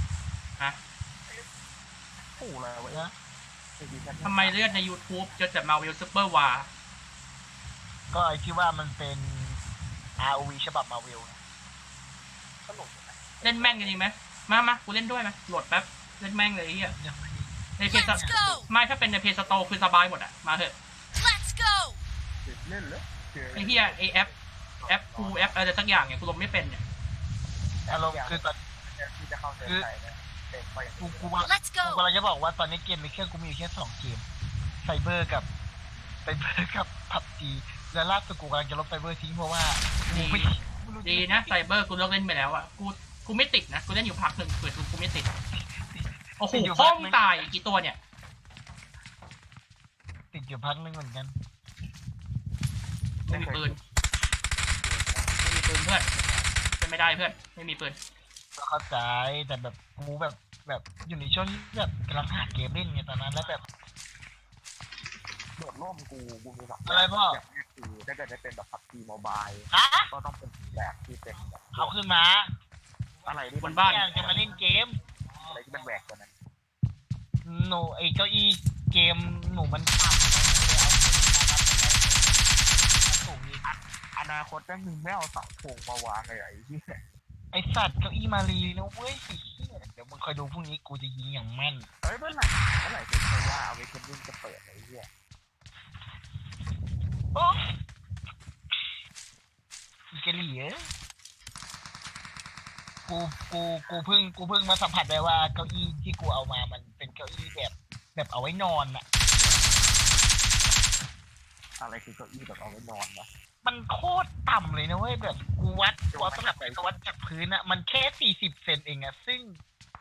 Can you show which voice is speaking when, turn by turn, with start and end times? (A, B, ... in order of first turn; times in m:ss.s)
0:02.4-0:03.1 A
0:03.8-0:04.9 A
0:04.2-0:06.7 B
0:08.1-0:09.6 C
0:10.2-0:11.4 C
0:12.6-0:14.0 A
0:13.4-0:17.0 B
0:17.0-0:18.5 C
0:17.8-0:20.8 B
0:17.9-0:18.7 D
0:19.4-0:19.8 A
0:21.1-0:22.0 D
0:22.4-0:25.6 A
0:23.5-0:24.3 B
0:24.9-0:26.8 B
0:27.9-0:28.6 C
0:27.9-0:31.4 A
0:31.0-0:34.2 C
0:31.4-0:32.0 D
0:34.8-0:35.5 C
0:36.2-0:41.6 C
0:40.1-0:40.5 B
0:41.0-0:45.3 B
0:45.6-0:47.5 C
0:46.4-0:48.0 B
0:50.3-0:51.3 C
0:53.3-0:53.8 B
0:53.3-0:53.8 A
0:54.8-0:55.4 A
0:55.4-0:56.1 B
0:56.1-0:56.7 A
0:56.8-0:58.0 B
0:58.6-1:03.6 C
1:05.6-1:11.9 A
1:06.8-1:07.4 C
1:09.7-1:10.1 C
1:11.8-1:12.5 C
1:13.2-1:14.5 A
1:13.6-1:14.1 B
1:13.8-1:15.5 C
1:15.4-1:16.3 A
1:17.4-1:23.7 C
1:23.6-1:27.0 A
1:27.5-1:31.9 C
1:32.0-1:35.1 A
1:37.3-1:37.8 C
1:40.1-1:40.9 C
1:43.1-1:49.0 C
1:49.3-1:50.0 A
1:51.8-1:53.3 A
1:53.6-1:59.6 C
1:56.1-1:56.8 A